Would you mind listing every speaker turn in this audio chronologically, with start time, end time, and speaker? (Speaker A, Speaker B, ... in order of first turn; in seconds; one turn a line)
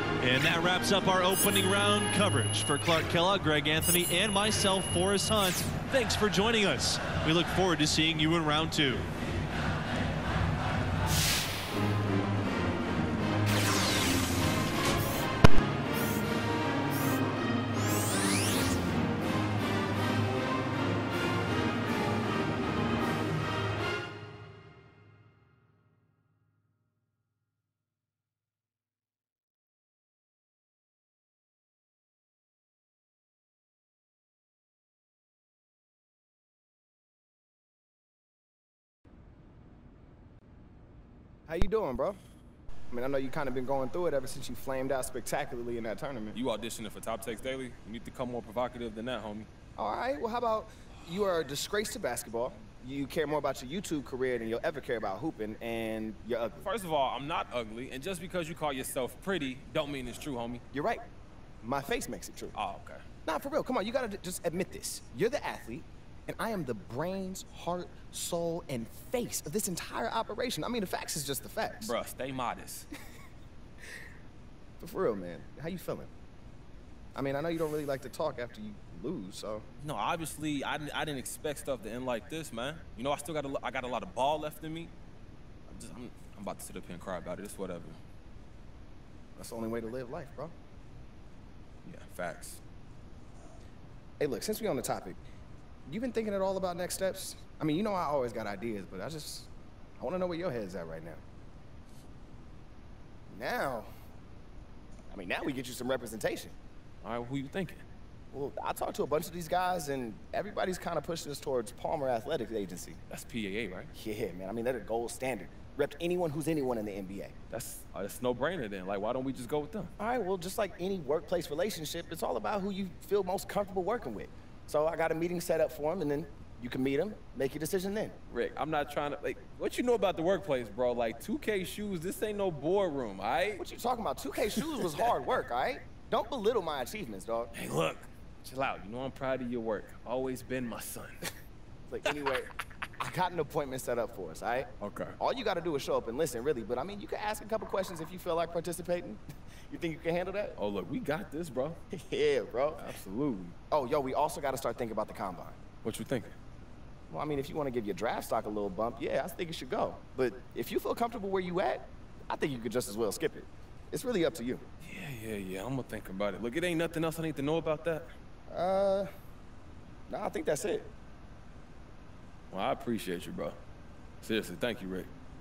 Speaker A: 0.2-9.1
Speaker B: 41.5-42.2
Speaker B: 42.9-46.4
Speaker C: 46.3-49.5
Speaker B: 49.8-56.7
Speaker C: 56.6-60.6
Speaker B: 60.7-61.1
Speaker B: 61.6-62.6
Speaker C: 62.5-63.0
Speaker B: 63.2-71.9
Speaker C: 71.8-72.9
Speaker B: 74.8-76.1
Speaker B: 77.2-79.7
Speaker C: 79.8-84.9
Speaker C: 85.7-88.0
Speaker B: 89.4-90.5
Speaker C: 91.8-92.6
Speaker B: 94.2-95.2
Speaker B: 95.9-101.2
Speaker B: 103.3-103.9
Speaker B: 105.1-106.6
Speaker C: 107.0-107.8
Speaker B: 108.3-113.0
Speaker C: 113.1-113.9
Speaker B: 114.0-117.3
Speaker C: 117.5-119.9
Speaker B: 120.0-128.2
Speaker C: 128.3-133.7
Speaker B: 133.6-137.5
Speaker C: 134.6-135.1
Speaker C: 137.5-141.3
Speaker B: 141.9-150.6
Speaker C: 144.8-145.2
Speaker C: 150.6-151.8
Speaker B: 151.9-153.0
Speaker C: 152.8-153.6
Speaker B: 153.7-155.6
Speaker C: 155.8-156.3
Speaker B: 157.1-164.7
Speaker C: 164.8-168.1
Speaker B: 168.5-169.1
Speaker B: 170.1-170.9
Speaker C: 172.5-173.6
Speaker C: 174.2-175.1